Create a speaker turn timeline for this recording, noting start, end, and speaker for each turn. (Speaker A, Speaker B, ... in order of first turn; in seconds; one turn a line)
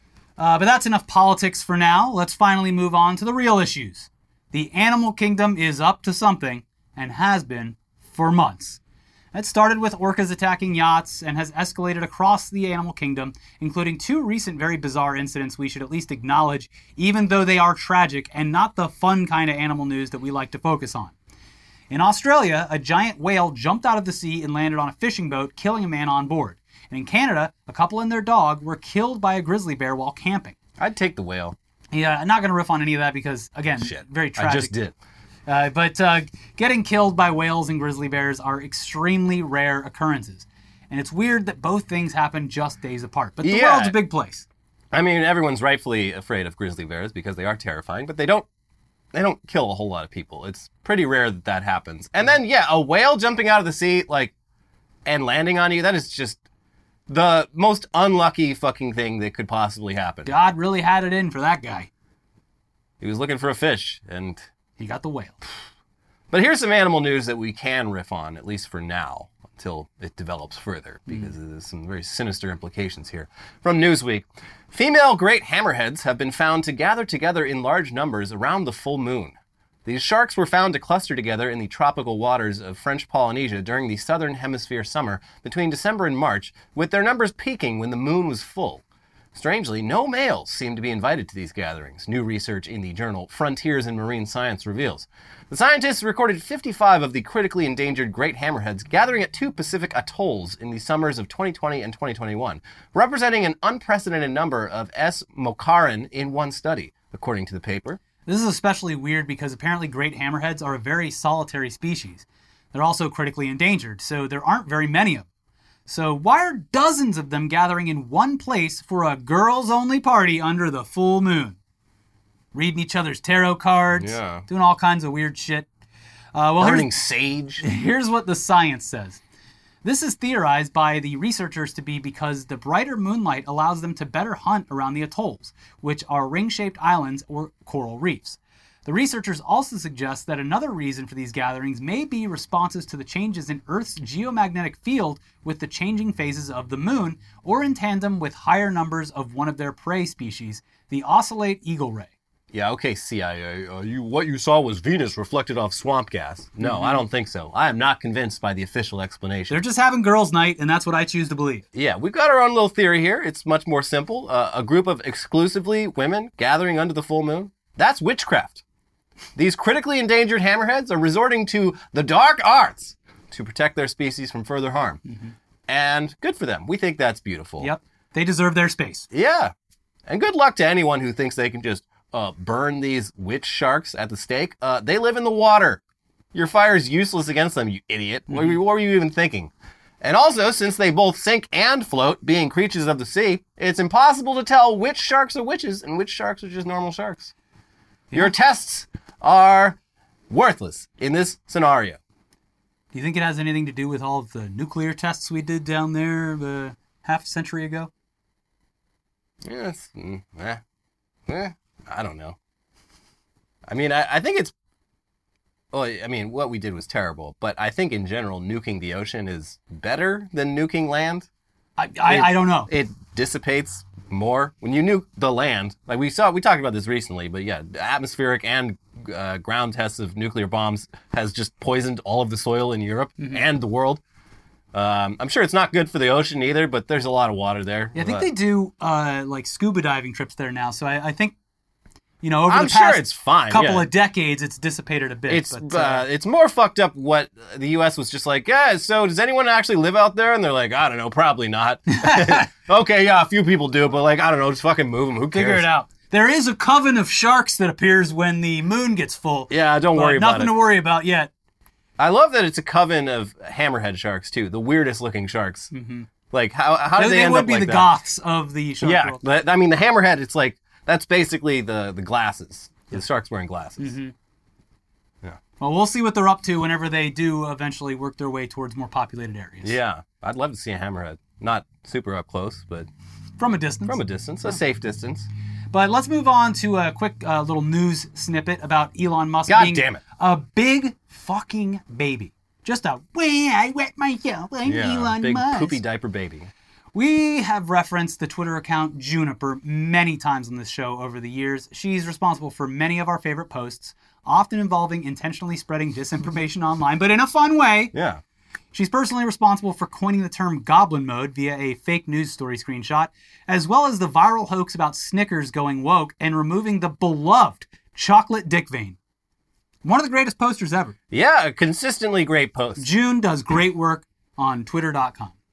Speaker A: 0.4-8.8
Speaker A: 9.3-21.1
Speaker A: 21.9-30.6
Speaker B: 30.8-31.6
Speaker A: 31.9-34.7
Speaker B: 33.8-34.9
Speaker A: 35.5-44.5
Speaker B: 43.4-43.9
Speaker B: 44.9-48.5
Speaker B: 49.1-54.3
Speaker B: 55.1-56.4
Speaker B: 57.1-60.3
Speaker A: 60.3-61.9
Speaker B: 63.0-64.5
Speaker A: 64.8-65.4
Speaker B: 66.3-88.8
Speaker B: 89.3-108.0
Speaker A: 108.3-115.2
Speaker A: 115.9-121.6
Speaker A: 122.5-125.7
Speaker B: 124.0-124.5
Speaker A: 126.3-126.9
Speaker B: 126.6-127.6
Speaker A: 127.6-129.2
Speaker A: 129.8-152.1
Speaker B: 152.5-159.6
Speaker A: 156.6-157.0
Speaker A: 159.5-161.6
Speaker B: 161.7-168.6
Speaker B: 169.4-175.0
Speaker A: 175.1-175.3
Speaker B: 175.7-177.7
Speaker A: 177.6-179.1
Speaker B: 179.1-179.5
Speaker B: 180.1-185.8
Speaker B: 186.3-189.5
Speaker A: 188.3-188.6
Speaker B: 190.0-197.3
Speaker B: 198.1-199.8
Speaker B: 200.3-202.0
Speaker A: 202.9-207.9
Speaker B: 209.4-210.6
Speaker B: 211.3-212.4
Speaker B: 213.7-214.5
Speaker B: 215.7-221.3
Speaker A: 221.8-222.7
Speaker B: 222.1-234.0
Speaker A: 233.2-233.4
Speaker B: 234.7-238.3
Speaker A: 237.9-241.3
Speaker A: 242.2-246.0
Speaker B: 242.5-243.9
Speaker B: 245.3-255.7
Speaker A: 251.9-252.5
Speaker A: 255.3-261.3
Speaker B: 259.5-260.6
Speaker B: 262.0-265.7
Speaker A: 265.7-266.1
Speaker B: 266.3-267.9
Speaker A: 267.0-269.2
Speaker B: 268.8-273.9
Speaker A: 273.8-274.1
Speaker A: 275.6-279.8
Speaker B: 279.6-282.9
Speaker A: 283.4-284.6
Speaker B: 283.9-285.3
Speaker A: 285.7-295.8
Speaker B: 289.5-290.0
Speaker B: 294.7-296.5
Speaker A: 296.9-307.9
Speaker B: 307.9-308.2
Speaker A: 308.7-319.0
Speaker A: 319.8-321.0
Speaker B: 321.1-322.9
Speaker A: 322.8-325.3